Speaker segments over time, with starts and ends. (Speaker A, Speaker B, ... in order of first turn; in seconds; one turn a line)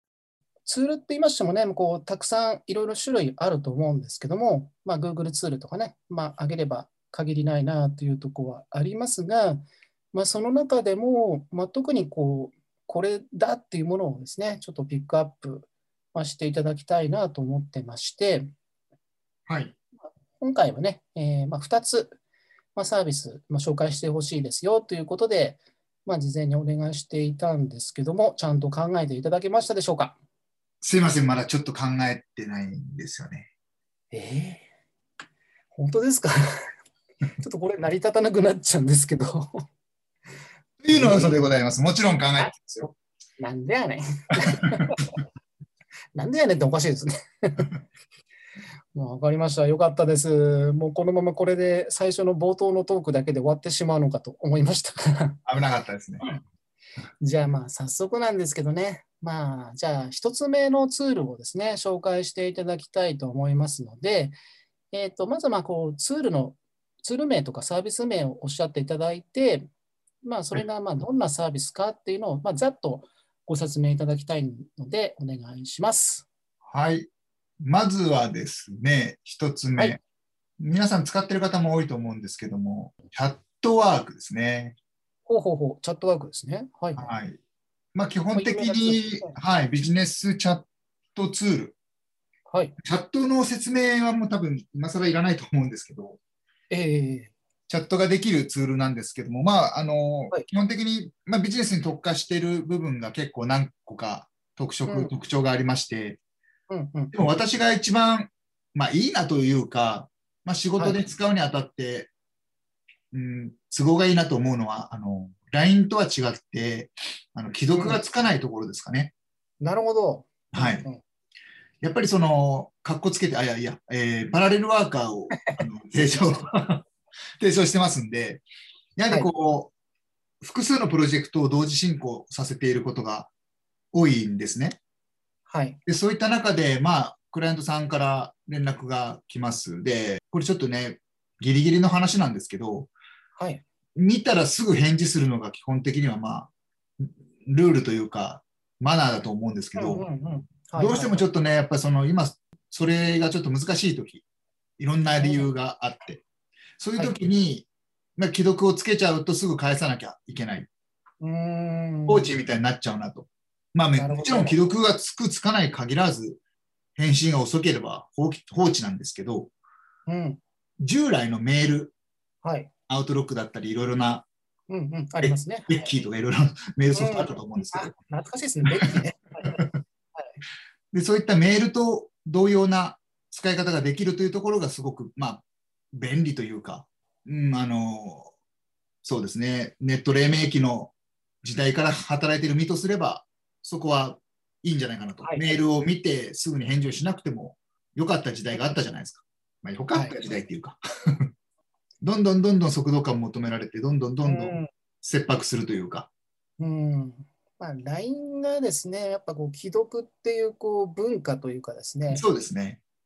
Speaker A: 0.7-18.5
Speaker B: 19.5-19.7
Speaker A: 20.0-22.2
Speaker A: 22.8-30.2
Speaker B: 30.8-33.5
Speaker A: 34.1-34.6
Speaker A: 35.7-36.7
Speaker A: 37.4-39.6
Speaker B: 40.8-42.9
Speaker A: 40.9-41.6
Speaker A: 43.4-45.1
Speaker A: 46.1-47.7
Speaker A: 48.9-55.4
Speaker B: 55.5-56.2
Speaker A: 57.2-64.3
Speaker A: 64.9-69.7
Speaker A: 70.2-76.3
Speaker B: 76.7-77.1
Speaker B: 77.6-80.0
Speaker B: 80.6-84.8
Speaker A: 85.3-87.1
Speaker B: 87.0-87.4
Speaker B: 87.9-91.8
Speaker A: 88.3-89.3
Speaker A: 92.5-92.8
Speaker B: 92.8-96.2
Speaker A: 96.7-97.3
Speaker B: 97.7-106.2
Speaker A: 104.9-105.1
Speaker A: 106.7-107.1
Speaker B: 107.1-112.1
Speaker A: 110.8-111.1
Speaker B: 113.1-119.1
Speaker A: 117.7-118.0
Speaker A: 119.6-121.0
Speaker B: 120.5-120.8
Speaker B: 121.8-126.8
Speaker B: 127.4-128.4
Speaker B: 129.0-129.7
Speaker B: 130.4-133.3
Speaker B: 133.9-134.8
Speaker A: 135.5-135.8
Speaker B: 135.9-142.9
Speaker A: 143.4-143.6
Speaker B: 143.9-150.1
Speaker A: 149.8-151.2
Speaker B: 150.8-154.2
Speaker B: 154.8-156.2
Speaker A: 155.2-155.5
Speaker B: 156.8-160.7
Speaker A: 161.2-162.3
Speaker B: 162.1-166.4
Speaker A: 164.0-164.6
Speaker B: 166.9-169.5
Speaker A: 170.1-170.4
Speaker B: 170.8-171.9
Speaker A: 172.4-172.7
Speaker B: 172.9-174.2
Speaker A: 174.7-175.9
Speaker B: 175.2-177.9
Speaker A: 176.9-179.6
Speaker B: 179.4-179.7
Speaker A: 180.1-180.4
Speaker B: 180.9-188.3
Speaker B: 189.0-201.3
Speaker A: 195.2-195.6
Speaker B: 202.0-206.1
Speaker A: 204.2-204.7
Speaker A: 206.6-212.2
Speaker B: 212.1-212.8